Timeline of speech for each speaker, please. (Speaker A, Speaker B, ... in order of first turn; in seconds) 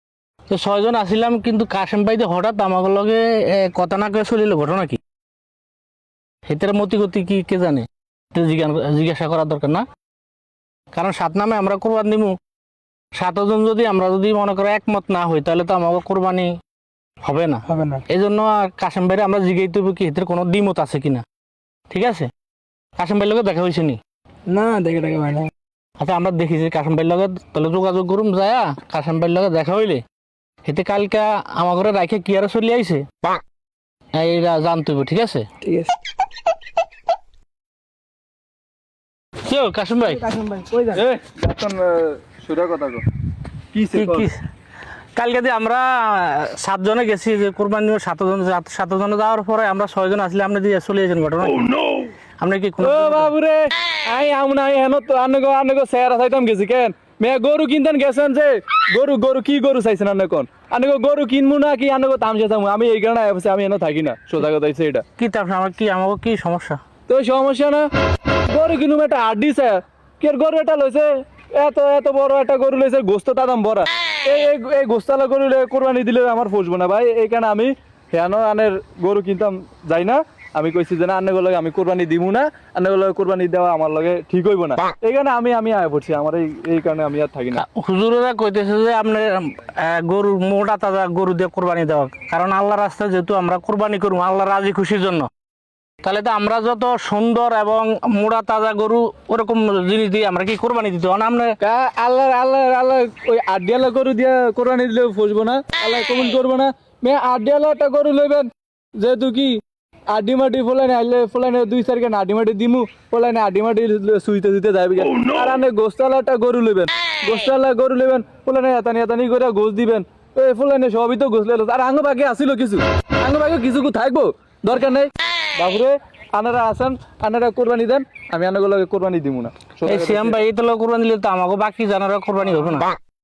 Speaker A: 0.5-5.0, 6.5-9.8, 10.9-12.3, 13.2-16.5, 17.2-21.2, 21.9-22.3, 23.0-24.0, 26.0-30.0, 30.6-33.0, 34.1-35.5, 39.5-40.3, 44.0-44.4, 45.1-51.8, 52.4-53.3, 65.2-66.8, 87.5-95.3, 96.0-101.5, 129.8-132.9
Speaker B: 17.7-18.0, 24.5-25.5, 35.6-35.9, 40.2-41.0
Speaker C: 40.9-43.0, 43.7-44.3, 52.8-65.0, 67.1-67.9, 68.5-87.6, 101.6-109.5, 110.1-130.4